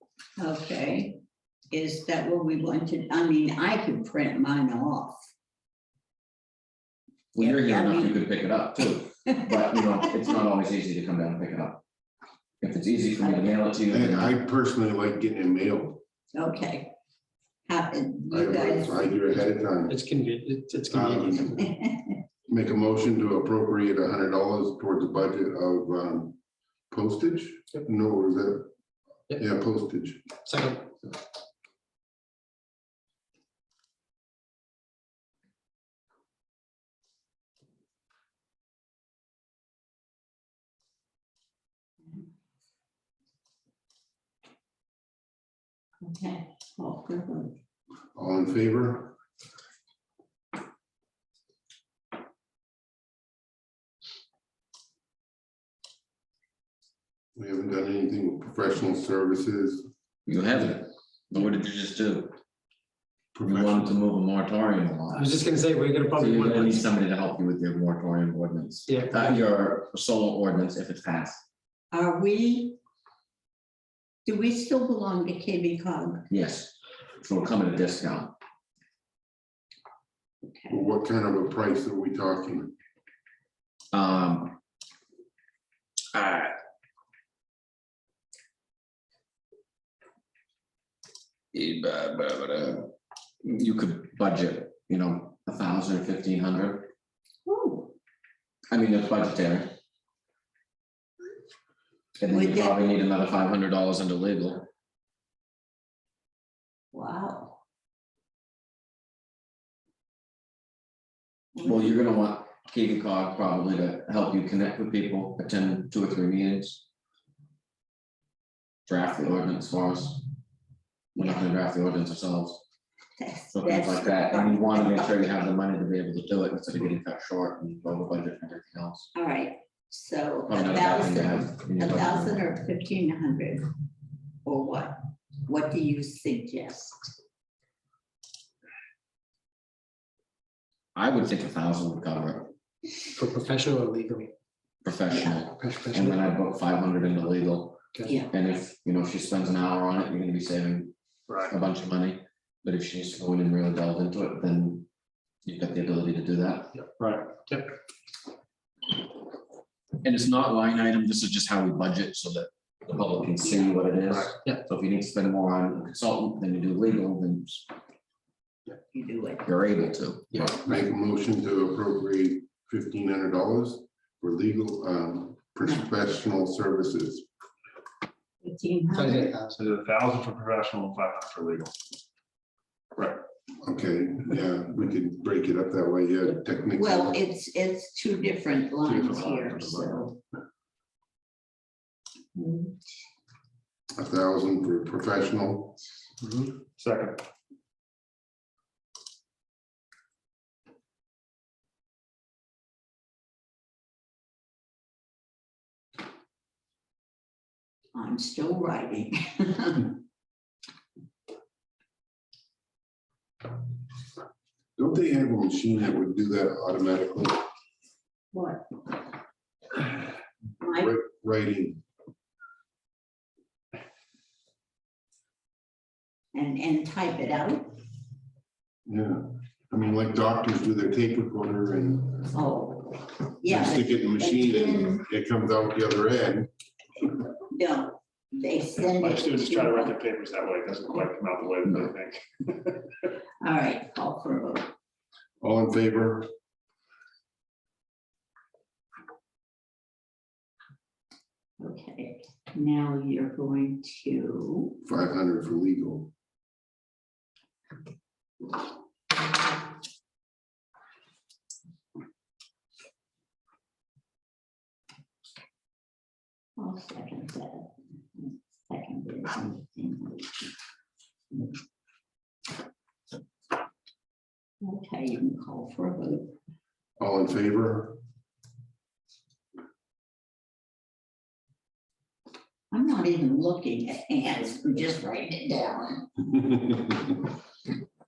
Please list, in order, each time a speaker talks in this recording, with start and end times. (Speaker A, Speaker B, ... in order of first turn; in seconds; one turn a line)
Speaker A: 0.4-1.2
Speaker A: 1.7-5.2
Speaker B: 7.3-11.8
Speaker A: 7.4-8.2
Speaker A: 9.2-9.8
Speaker B: 12.6-14.3
Speaker A: 13.2-13.5
Speaker C: 13.9-16.0
Speaker A: 16.3-16.9
Speaker A: 17.7-19.1
Speaker C: 18.3-20.0
Speaker D: 19.9-21.6
Speaker C: 20.9-21.5
Speaker A: 21.6-22.2
Speaker C: 22.5-26.4
Speaker C: 26.9-28.7
Speaker C: 29.3-30.2
Speaker D: 30.4-30.9
Speaker A: 46.0-47.6
Speaker C: 48.1-49.2
Speaker C: 57.4-59.9
Speaker B: 60.3-62.3
Speaker C: 63.3-64.0
Speaker B: 63.5-65.5
Speaker D: 65.1-66.8
Speaker B: 66.2-71.4
Speaker D: 68.9-69.3
Speaker A: 71.9-72.8
Speaker A: 74.2-76.3
Speaker B: 76.3-78.4
Speaker A: 80.4-80.8
Speaker C: 80.7-82.8
Speaker B: 83.9-84.6
Speaker B: 86.1-86.5
Speaker B: 91.5-92.9
Speaker B: 93.4-96.9
Speaker A: 97.5-97.9
Speaker B: 98.7-99.8
Speaker B: 102.2-104.7
Speaker A: 102.3-102.9
Speaker A: 106.9-107.6
Speaker A: 111.5-111.9
Speaker B: 111.6-116.8
Speaker B: 118.9-120.2
Speaker B: 121.1-122.6
Speaker A: 121.2-121.5
Speaker A: 123.2-125.3
Speaker B: 123.5-129.1
Speaker A: 129.2-133.7
Speaker B: 130.5-132.4
Speaker A: 134.4-137.1
Speaker B: 140.9-142.5
Speaker D: 143.1-144.3
Speaker B: 144.8-150.9
Speaker A: 145.1-145.4
Speaker D: 145.5-146.2
Speaker B: 151.5-154.9
Speaker B: 155.4-156.8
Speaker E: 157.0-157.4
Speaker D: 157.4-157.7
Speaker B: 160.0-167.7
Speaker A: 163.4-164.0
Speaker E: 164.1-164.3
Speaker A: 168.9-169.5
Speaker B: 169.4-170.5
Speaker D: 170.3-170.6
Speaker C: 170.5-177.3
Speaker A: 178.4-179.3
Speaker D: 178.9-179.6
Speaker E: 179.6-181.7
Speaker C: 183.6-187.2
Speaker A: 186.8-190.2
Speaker E: 188.9-189.9
Speaker A: 192.3-192.7
Speaker C: 193.9-195.8
Speaker E: 196.6-197.2
Speaker A: 207.9-210.0
Speaker C: 214.8-217.4
Speaker A: 218.3-218.7
Speaker A: 220.6-220.9
Speaker C: 220.7-221.8
Speaker A: 226.3-227.8
Speaker C: 228.9-232.3
Speaker A: 232.3-235.0
Speaker C: 233.4-236.5
Speaker A: 237.5-239.9
Speaker E: 238.9-242.9
Speaker A: 243.4-244.7
Speaker C: 245.4-246.3
Speaker A: 251.6-254.8
Speaker C: 254.8-256.1
Speaker A: 266.6-270.5
Speaker A: 274.6-276.4
Speaker C: 277.0-278.0
Speaker A: 282.7-286.1